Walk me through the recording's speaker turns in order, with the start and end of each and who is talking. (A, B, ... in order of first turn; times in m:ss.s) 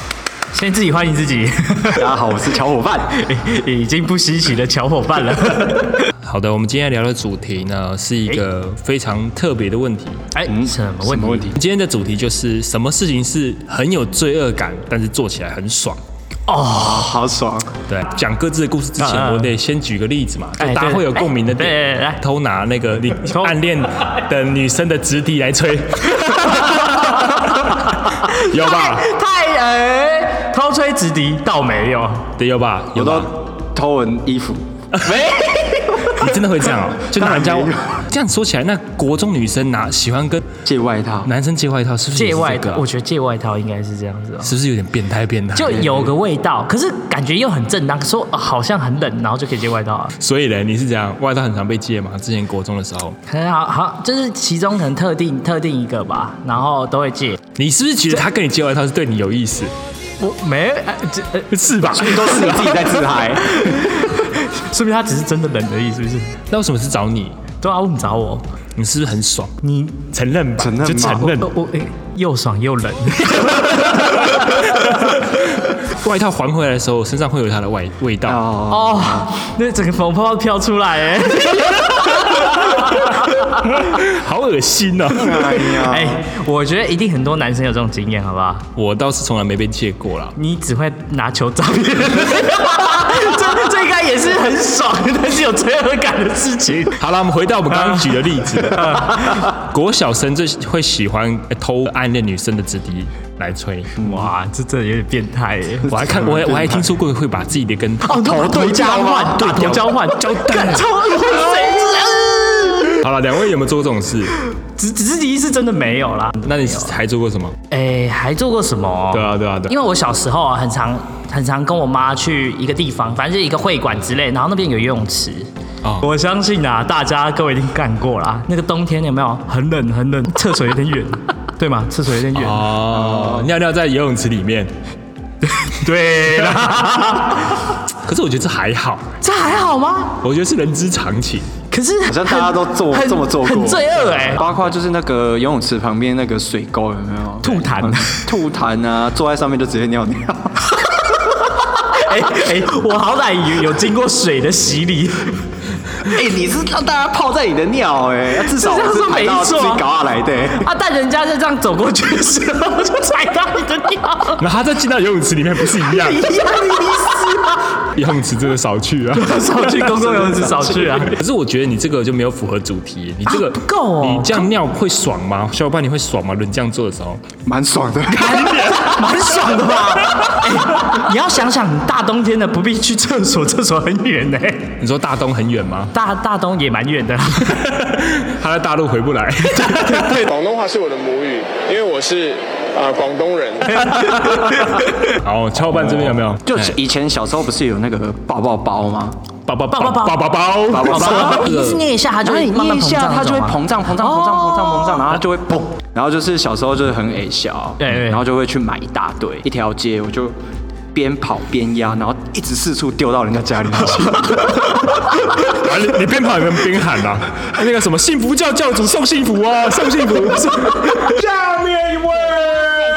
0:00.5-0:02.1 A
0:01.9-0:03.3 B
0:03.2-0:06.1 A
0:06.2-0:10.2 C
0:10.3-0:11.5 A
0:10.4-0:11.6 B
0:11.5-0:16.0 C
0:16.5-0:17.1 A
0:16.7-0:17.7 B
0:17.9-0:29.1 C
0:19.0-0:19.5 A
0:20.6-0:22.2 A
0:23.2-0:23.6 A
0:26.2-0:32.3 A
0:32.4-0:33.3 C
0:32.9-0:36.1 B
0:36.1-0:40.4 C
0:37.1-0:38.0 B
0:40.6-0:41.3 B
0:41.2-0:42.8 C
0:42.2-0:44.5 A
0:44.4-0:46.1 C
0:45.6-0:50.1 A
0:45.7-0:46.0 B
0:50.2-0:53.2 C
0:53.3-0:57.4 A
0:57.6-0:59.7 C
1:00.2-1:02.0 A
1:01.5-1:02.8 C
1:01.9-1:03.9 B
1:03.5-1:06.3 A
1:06.5-1:07.4 C
1:07.6-1:08.4 A
1:08.8-1:09.5 C
1:09.6-1:10.1 A
1:10.1-1:11.5 C
1:10.6-1:11.3 B
1:10.9-1:14.9 A
1:14.2-1:18.4 C
1:18.2-1:19.3 B
1:18.7-1:23.2 A
1:22.3-1:25.4 C
1:25.1-1:26.2 B
1:25.8-1:28.7 A
1:28.7-1:30.3 C
1:30.4-1:37.0 A
1:37.0-1:43.9 C
1:37.7-1:39.4 A
1:44.0-1:44.3 B
1:44.0-1:46.0 A
1:45.9-1:51.0 C
1:46.0-1:47.0 B
1:48.0-1:53.0 A
1:48.5-1:49.7 B
1:53.0-1:54.4 C
1:54.6-1:57.0 A
1:56.4-1:57.6 C
1:57.7-2:05.5 A
1:59.1-1:59.7 C
2:06.0-2:12.8 A
2:12.3-2:14.7 C
2:12.9-2:13.5 B
2:15.5-2:17.6 A
2:18.0-2:19.2 C
2:19.2-2:20.2 A
2:20.2-2:21.5 C
2:21.7-2:24.4 A
2:22.0-2:30.7 B
2:27.4-2:28.3 A
2:30.7-2:35.4 A
2:36.1-2:40.7 B
2:38.4-2:39.8 A
2:40.6-2:44.4 A
2:44.4-2:46.2 C
2:45.7-2:47.9 A
2:47.9-2:49.6 C
2:49.1-2:51.2 A
2:49.8-2:51.1 B
2:51.1-2:57.2 C
2:53.2-2:54.5 A
2:57.4-2:58.8 B
2:58.2-2:58.9 C
2:58.2-3:04.7 A
3:04.8-3:05.9 C
3:05.9-3:07.7 A
3:07.5-3:10.2 C
3:10.1-3:13.9 D
3:13.7-3:15.0 A
3:15.2-3:16.8 C
3:15.7-3:19.2 B
3:19.4-3:21.8 C
3:19.7-3:25.2 A
3:20.7-3:21.5 B
3:22.2-3:30.4 B
3:27.8-3:28.2 A
3:30.9-3:34.6 B
3:35.4-3:42.6 C
3:40.5-3:41.1 A